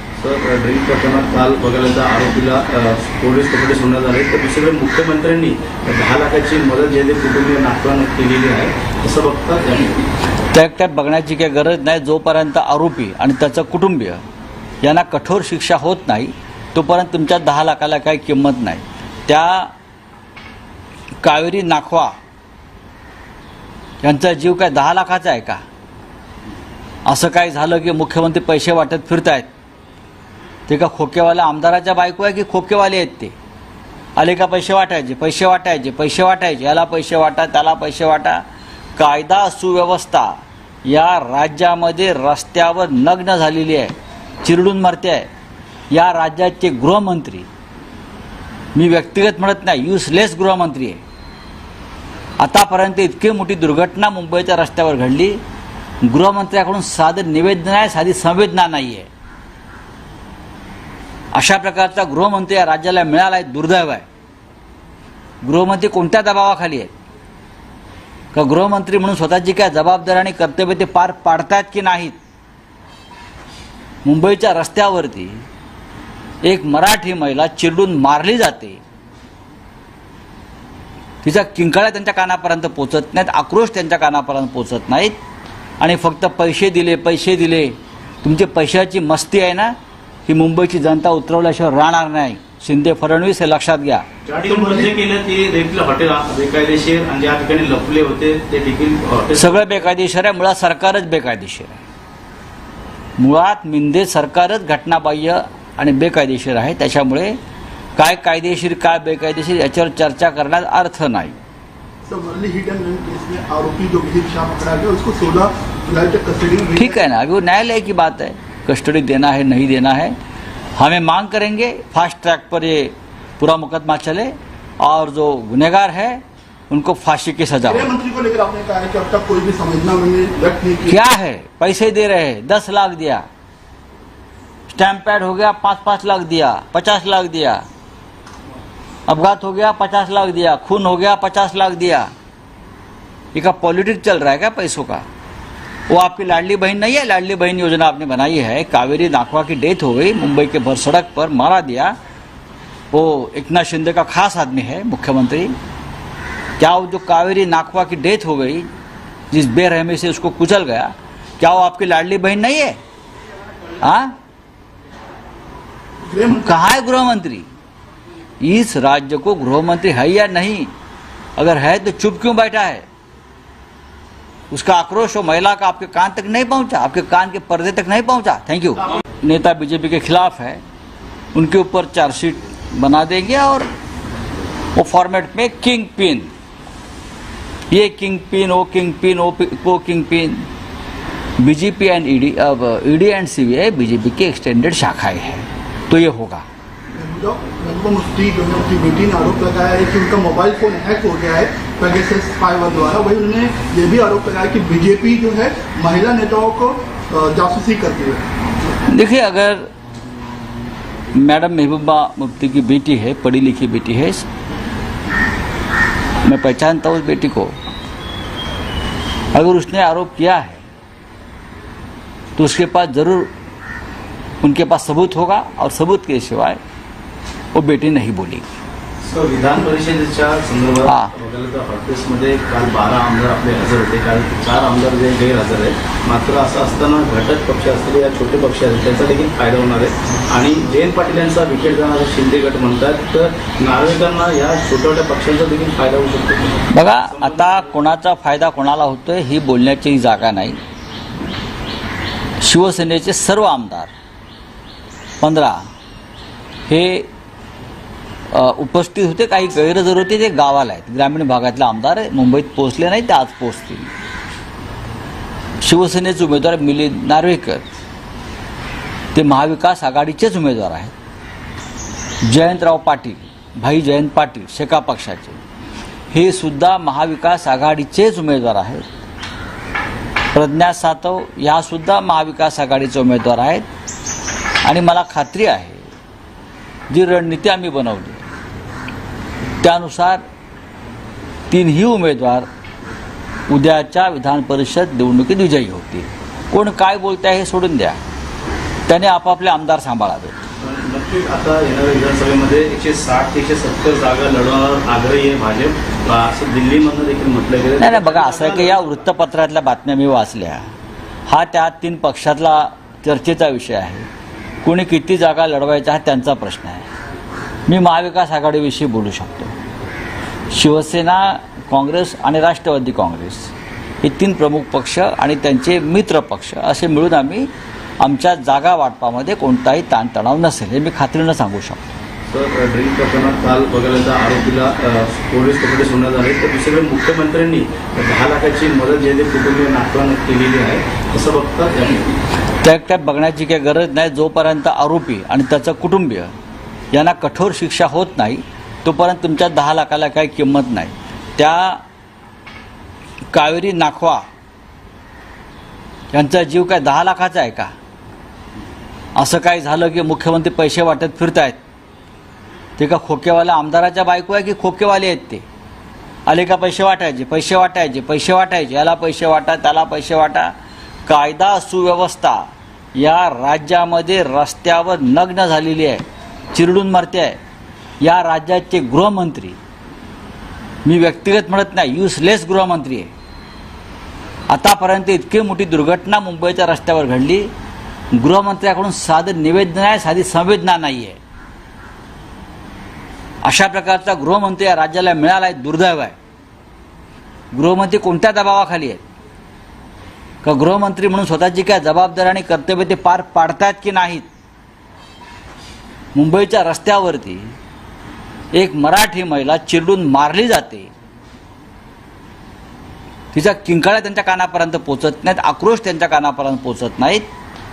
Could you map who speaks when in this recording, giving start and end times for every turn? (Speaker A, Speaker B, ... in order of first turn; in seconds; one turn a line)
Speaker A: 0.2-10.1
Speaker B: 10.5-14.2
Speaker B: 14.8-19.7
Speaker B: 21.2-22.1
Speaker B: 24.0-25.6
Speaker B: 27.1-29.5
Speaker B: 30.7-33.3
Speaker B: 34.1-38.4
Speaker B: 39.0-40.3
Speaker B: 40.8-45.3
Speaker B: 45.9-47.5
Speaker B: 48.7-51.0
Speaker B: 52.4-55.4
Speaker B: 56.0-59.1
Speaker B: 61.3-64.0
Speaker B: 65.4-66.9
Speaker B: 68.3-72.2
Speaker B: 74.0-75.4
Speaker B: 76.4-78.8
Speaker B: 81.2-85.2
Speaker B: 85.8-94.0
Speaker A: 94.2-99.8
Speaker C: 94.4-94.9
Speaker B: 99.3-101.8
Speaker B: 103.2-107.4
Speaker B: 108.0-111.4
Speaker C: 112.0-117.0
Speaker B: 116.8-120.2
Speaker B: 120.8-127.9
Speaker C: 127.7-131.0
Speaker B: 130.8-133.2
Speaker B: 134.7-137.6
Speaker B: 139.1-142.1
Speaker B: 143.3-145.1
Speaker B: 145.9-151.9
Speaker B: 152.9-155.5
Speaker B: 156.6-158.7
Speaker B: 159.3-162.8
Speaker B: 163.8-164.1
Speaker C: 166.0-166.6
Speaker B: 166.3-167.5
Speaker B: 168.4-170.7
Speaker B: 171.4-172.9
Speaker B: 174.5-180.6
Speaker B: 181.3-183.7
Speaker B: 184.7-186.3
Speaker B: 187.7-190.5
Speaker B: 191.4-196.4
Speaker C: 196.9-208.2
Speaker B: 208.9-209.7
Speaker B: 211.1-214.2
Speaker B: 216.2-217.5
Speaker B: 219.3-220.6
Speaker B: 222.4-223.3
Speaker B: 224.4-226.6
Speaker B: 227.5-228.5
Speaker A: 229.0-247.7
Speaker B: 230.8-231.1
Speaker B: 246.7-250.6
Speaker B: 252.4-253.9
Speaker B: 255.2-255.6
Speaker B: 256.7-257.1
Speaker B: 258.3-263.9
Speaker B: 265.6-267.6
Speaker B: 269.1-270.9
Speaker B: 272.2-275.4
Speaker B: 276.1-278.9
Speaker B: 280.3-283.6
Speaker B: 284.6-285.9
Speaker B: 286.9-288.2
Speaker B: 289.6-290.2
Speaker B: 291.5-292.5
Speaker B: 293.5-298.0
Speaker B: 298.9-300.4
Speaker A: 300.6-309.0
Speaker B: 307.8-310.7
Speaker B: 311.3-314.1
Speaker B: 314.6-316.9
Speaker B: 317.7-319.5
Speaker B: 320.5-327.5
Speaker B: 328.0-331.9
Speaker A: 332.3-342.2
Speaker B: 342.6-346.3
Speaker B: 346.9-351.8
Speaker B: 353.3-354.2
Speaker B: 356.1-357.7
Speaker B: 359.1-361.6
Speaker B: 362.8-365.4
Speaker B: 366.2-370.5
Speaker B: 371.1-372.4
Speaker B: 372.9-377.4
Speaker B: 378.0-379.6
Speaker B: 380.8-383.1
Speaker B: 384.5-387.5
Speaker B: 388.1-391.2
Speaker B: 393.4-396.1
Speaker B: 397.5-399.0
Speaker B: 400.4-404.2
Speaker B: 406.1-407.5
Speaker B: 408.5-410.9
Speaker B: 413.3-417.2